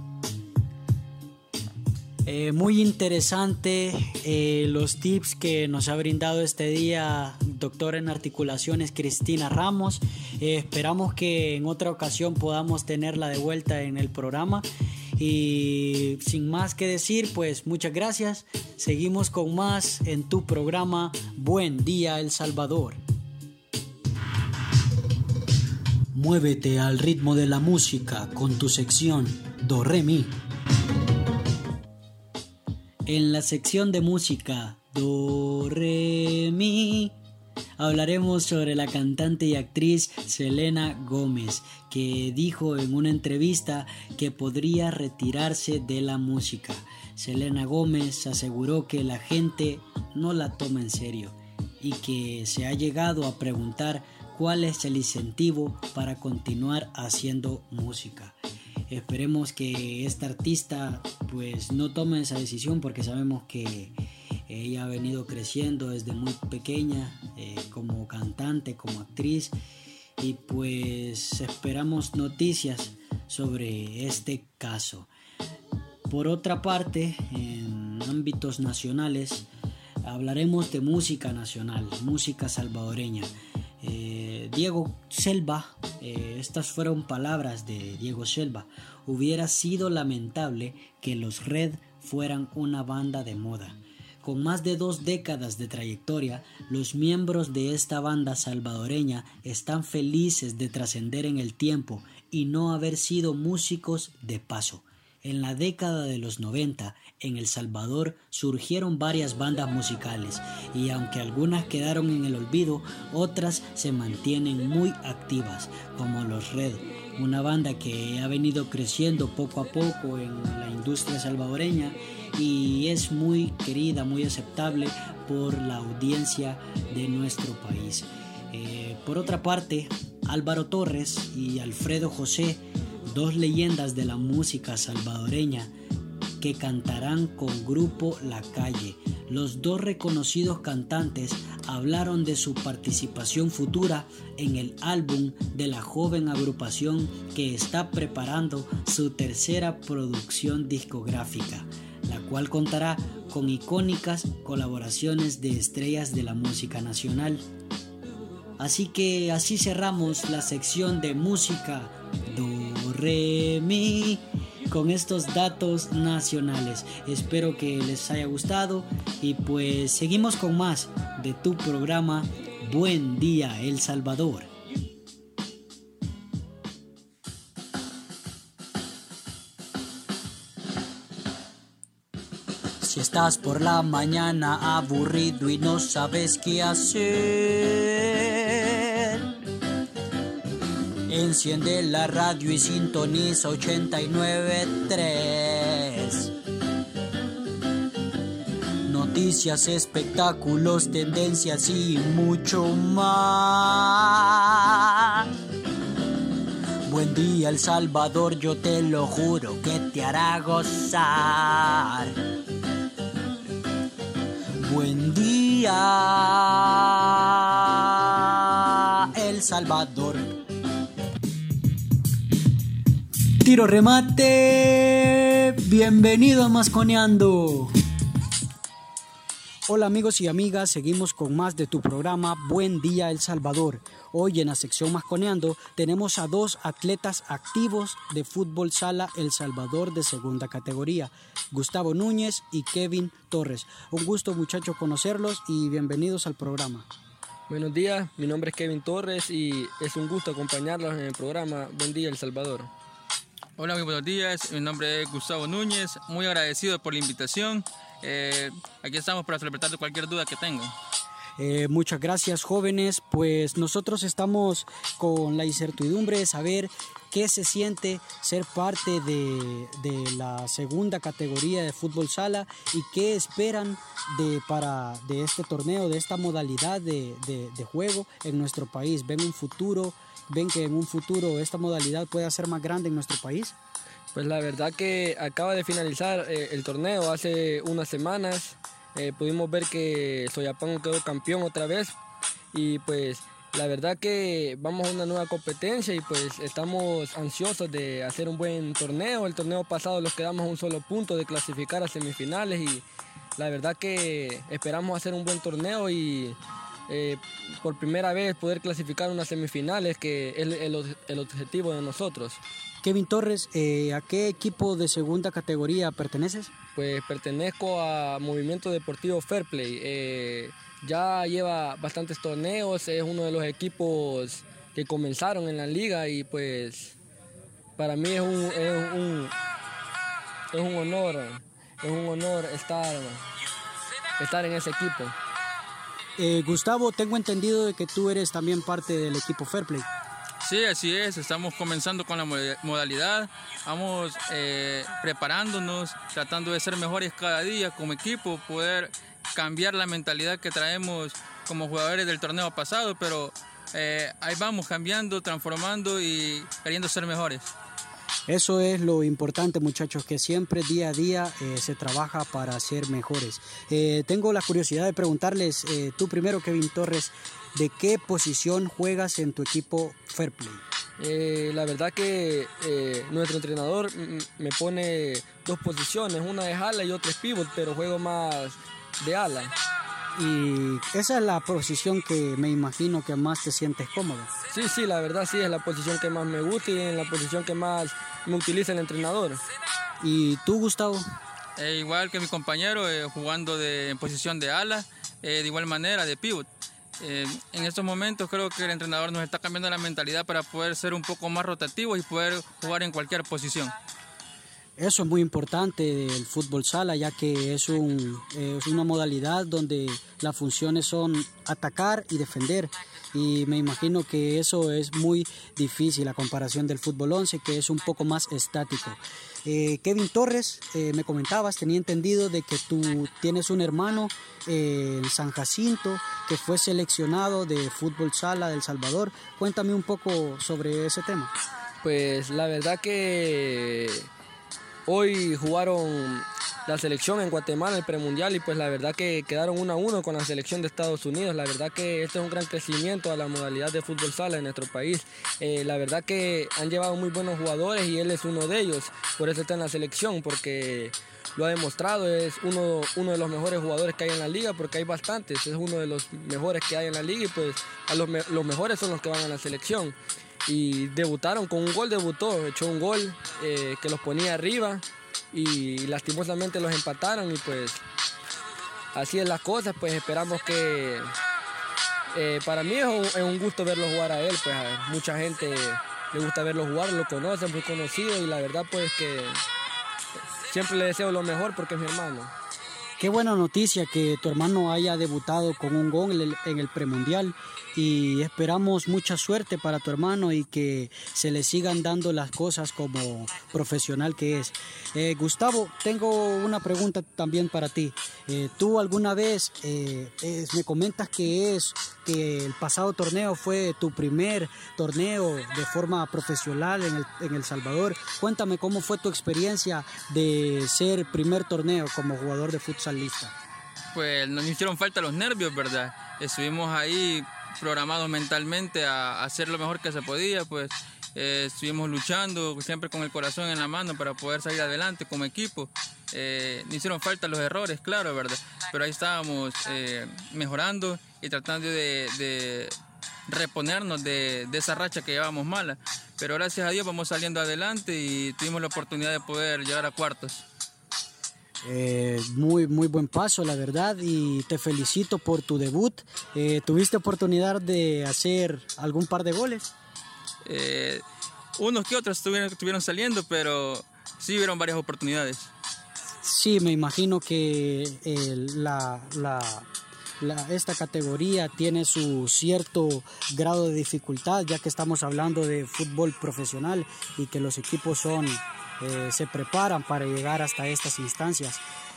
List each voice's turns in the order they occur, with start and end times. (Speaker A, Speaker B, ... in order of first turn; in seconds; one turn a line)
Speaker A: 2.2-23.0
Speaker A: 26.1-30.3
Speaker A: 33.1-37.1
Speaker A: 37.8-58.4
Speaker A: 58.9-63.9
Speaker A: 64.5-69.5
Speaker A: 70.2-75.1
Speaker A: 76.1-79.5
Speaker A: 80.0-135.7
Speaker A: 136.4-157.5
Speaker A: 158.6-174.5
Speaker A: 182.8-189.2
Speaker A: 191.1-196.3
Speaker A: 198.8-205.3
Speaker A: 206.8-212.2
Speaker A: 214.6-220.3
Speaker A: 223.4-227.7
Speaker A: 229.7-246.9
Speaker B: 247.5-252.7
Speaker C: 253.6-260.7
Speaker A: 261.4-283.6
Speaker B: 284.1-291.9
Speaker B: 292.5-302.8
Speaker B: 303.4-306.4
Speaker B: 306.9-312.4
Speaker A: 312.8-316.5
Speaker B: 316.7-327.0
Speaker B: 327.8-329.3
Speaker B: 330.5-333.2
Speaker B: 334.2-335.1
Speaker A: 336.2-339.9
Speaker C: 340.4-357.5
Speaker A: 358.3-370.6
Speaker B: 371.0-379.5
Speaker A: 380.1-384.3
Speaker B: 384.5-389.4
Speaker A: 390.0-391.0
Speaker C: 391.6-396.5
Speaker C: 397.0-403.7
Speaker A: 404.8-431.3
Speaker B: 431.8-434.1
Speaker B: 434.9-467.8
Speaker B: 468.9-471.1
Speaker B: 472.1-479.4
Speaker B: 480.5-482.3
Speaker A: 483.0-513.3
Speaker C: 513.9-532.7
Speaker C: 533.3-540.5
Speaker A: 541.6-549.7
Speaker C: 550.4-551.0
Speaker C: 551.6-555.5
Speaker A: 556.2-559.7
Speaker A: 560.2-571.6